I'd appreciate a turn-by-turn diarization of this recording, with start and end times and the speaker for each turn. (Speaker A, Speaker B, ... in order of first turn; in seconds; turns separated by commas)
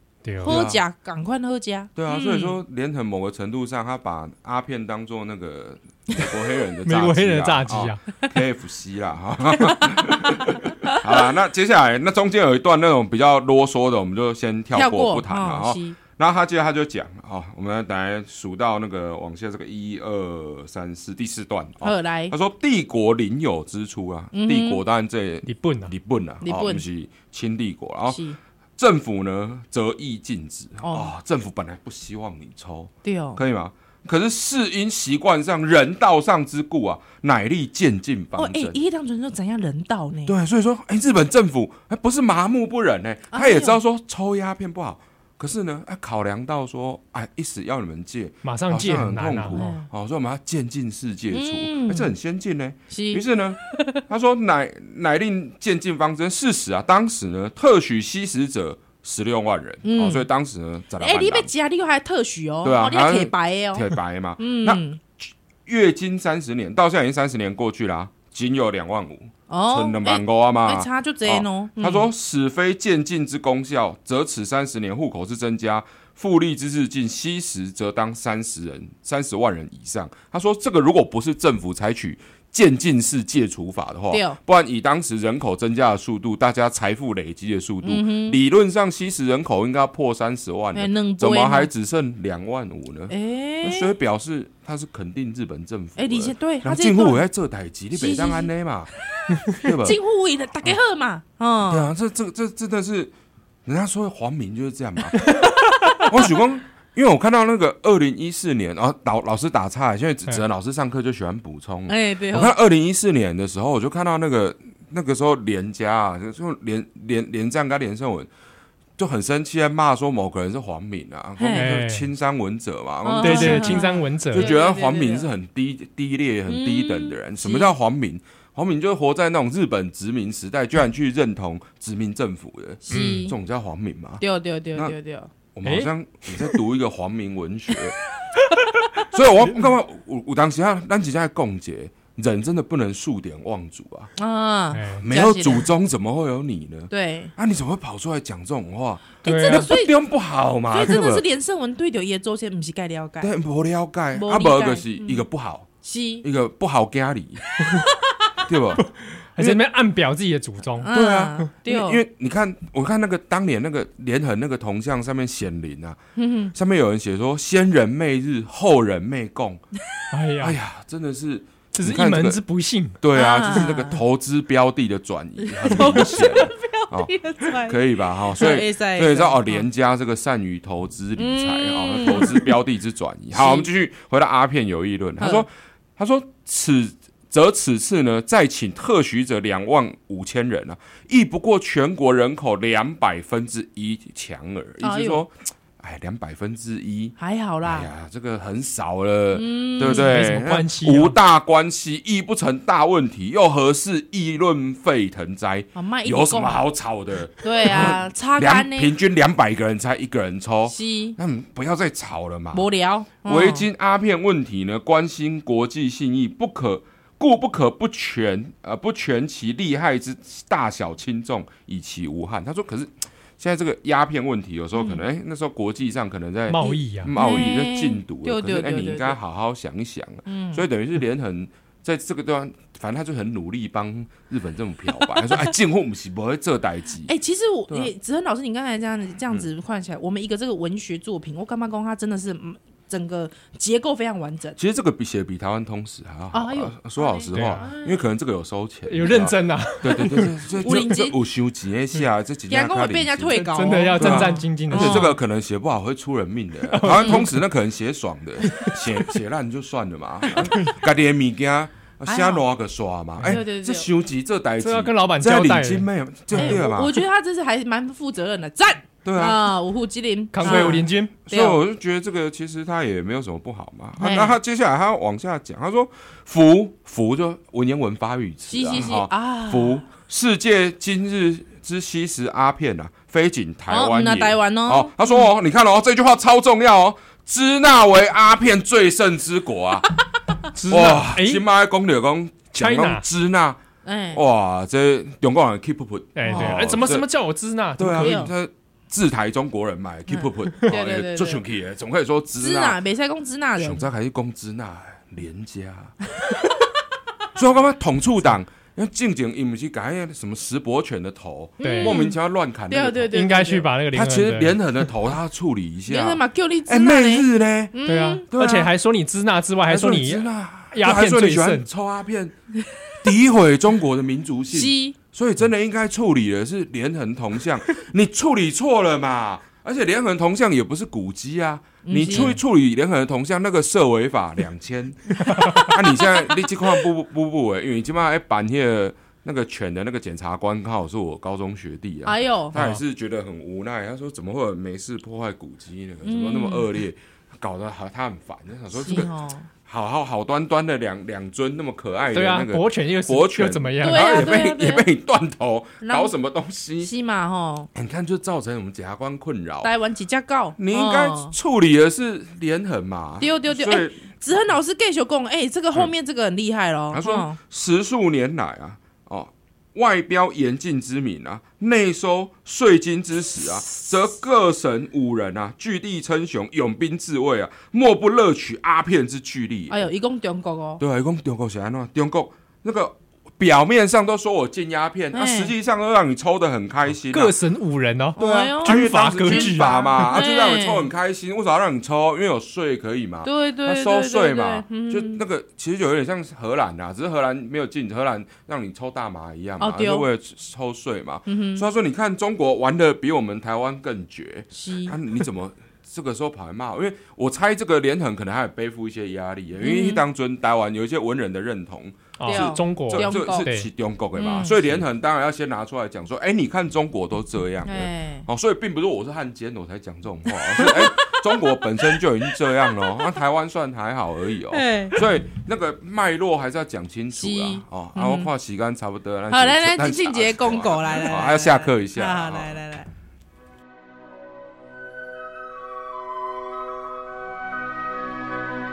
Speaker A: 0.2-0.6, Speaker B: 0.4-2.5, Speaker C: 0.4-0.8, Speaker C: 1.9-28.2, Speaker A: 6.8-8.0, Speaker B: 9.6-11.0, Speaker B: 14.7-16.0, Speaker B: 21.8-22.3, Speaker B: 24.3-24.8, Speaker A: 25.4-25.9, Speaker B: 26.4-26.8, Speaker B: 28.1-28.4, Speaker C: 28.8-38.8, Speaker B: 30.8-31.1, Speaker B: 33.0-33.4, Speaker B: 38.4-40.3, Speaker C: 40.3-61.5, Speaker B: 43.3-43.8, Speaker A: 48.4-49.6, Speaker B: 49.5-49.9, Speaker B: 51.3-52.1, Speaker B: 52.9-54.0, Speaker B: 59.8-60.3, Speaker B: 61.0-65.0, Speaker C: 62.6-98.9, Speaker B: 69.5-72.1, Speaker B: 84.1-84.4, Speaker B: 87.8-88.4, Speaker B: 90.7-91.7, Speaker B: 93.1-93.9, Speaker B: 96.0-97.2, Speaker B: 97.9-98.5, Speaker B: 99.2-101.9, Speaker C: 99.4-100.0, Speaker C: 101.7-103.1, Speaker C: 103.7-105.3, Speaker A: 105.2-105.5, Speaker C: 106.0-118.3, Speaker B: 111.9-112.5, Speaker C: 119.0-134.2, Speaker B: 121.4-121.7, Speaker A: 121.5-122.1, Speaker B: 123.0-125.3, Speaker A: 123.2-124.5, Speaker B: 126.5-127.7, Speaker B: 132.8-133.3, Speaker A: 132.9-133.3, Speaker B: 134.2-135.3, Speaker C: 135.5-137.9, Speaker A: 135.6-135.9, Speaker C: 139.0-144.1, Speaker B: 144.2-145.7, Speaker A: 144.7-145.1, Speaker C: 145.0-151.3, Speaker B: 146.9-147.3, Speaker A: 149.2-149.7, Speaker B: 149.2-149.9, Speaker B: 150.7-153.3, Speaker C: 153.2-155.7, Speaker B: 154.1-155.2, Speaker B: 155.8-156.2, Speaker C: 156.2-157.4, Speaker B: 157.7-158.3, Speaker C: 158.4-158.8, Speaker A: 159.3-160.9, Speaker B: 160.8-162.0, Speaker C: 160.9-166.0, Speaker B: 166.2-166.5, Speaker C: 166.5-169.6, Speaker A: 170.1-170.6, Speaker C: 170.4-172.4, Speaker A: 171.7-173.0, Speaker C: 173.0-212.7, Speaker B: 173.1-174.0, Speaker B: 175.4-179.6, Speaker A: 175.7-176.0, Speaker B: 181.2-182.6, Speaker B: 183.3-183.7, Speaker B: 185.2-185.4, Speaker B: 194.8-195.2, Speaker B: 197.2-197.9, Speaker B: 199.3-200.1, Speaker A: 199.8-201.2, Speaker B: 205.7-206.6, Speaker B: 207.4-208.9, Speaker B: 210.7-211.2, Speaker B: 212.5-213.7, Speaker C: 213.2-237.1, Speaker B: 224.8-225.0, Speaker A: 226.5-227.1, Speaker B: 227.1-229.2, Speaker B: 230.2-230.7, Speaker B: 237.0-244.6, Speaker C: 244.6-267.0, Speaker B: 246.3-248.0, Speaker A: 247.3-247.7, Speaker A: 248.9-250.9, Speaker B: 250.6-251.1, Speaker B: 252.5-255.1, Speaker A: 253.3-255.1, Speaker A: 256.7-257.4, Speaker A: 258.4-258.9, Speaker A: 260.4-260.7, Speaker B: 262.1-262.4, Speaker B: 263.2-263.9, Speaker A: 264.6-266.6, Speaker B: 266.3-271.6, Speaker C: 269.0-269.5, Speaker A: 270.3-271.1, Speaker C: 270.4-289.9, Speaker B: 274.0-274.4, Speaker B: 278.5-279.8, Speaker B: 283.7-285.2, Speaker A: 290.5-291.4, Speaker C: 290.7-293.6, Speaker A: 292.6-293.0, Speaker B: 293.8-294.2, Speaker C: 294.1-297.1, Speaker A: 296.1-298.2, Speaker B: 296.2-296.7, Speaker C: 297.8-302.8, Speaker B: 297.9-298.3, Speaker B: 300.1-301.4, Speaker B: 302.4-303.9, Speaker C: 303.6-305.9, Speaker C: 307.3-313.2, Speaker B: 311.6-312.1, Speaker A: 311.6-312.0, Speaker B: 312.7-313.7, Speaker A: 313.1-314.6, Speaker C: 313.9-317.7, Speaker B: 315.9-318.6, Speaker A: 317.9-321.7, Speaker C: 318.3-318.7, Speaker C: 319.6-322.3, Speaker C: 323.0-349.1, Speaker B: 324.5-324.9, Speaker B: 331.8-332.4, Speaker B: 335.5-336.1, Speaker B: 342.0-342.6, Speaker B: 346.0-346.7, Speaker B: 348.7-349.5, Speaker C: 349.6-356.9, Speaker A: 352.1-354.3, Speaker B: 353.8-354.9, Speaker B: 355.8-356.1, Speaker B: 356.8-357.7, Speaker C: 357.7-359.7, Speaker B: 359.6-361.4, Speaker C: 360.6-364.0, Speaker B: 363.2-367.4, Speaker C: 366.9-379.9, Speaker B: 379.7-380.8, Speaker C: 380.8-387.3, Speaker B: 385.1-385.5, Speaker A: 387.1-390.0, Speaker B: 388.2-390.9, Speaker C: 388.2-432.5, Speaker B: 393.2-395.2, Speaker B: 399.6-400.1, Speaker B: 401.3-401.6, Speaker B: 404.5-405.0, Speaker B: 409.6-410.0, Speaker A: 412.2-413.7, Speaker B: 412.2-413.5, Speaker B: 414.1-414.6, Speaker B: 417.6-418.2, Speaker B: 420.5-421.7, Speaker B: 424.5-425.0, Speaker B: 427.1-428.3, Speaker B: 429.3-432.9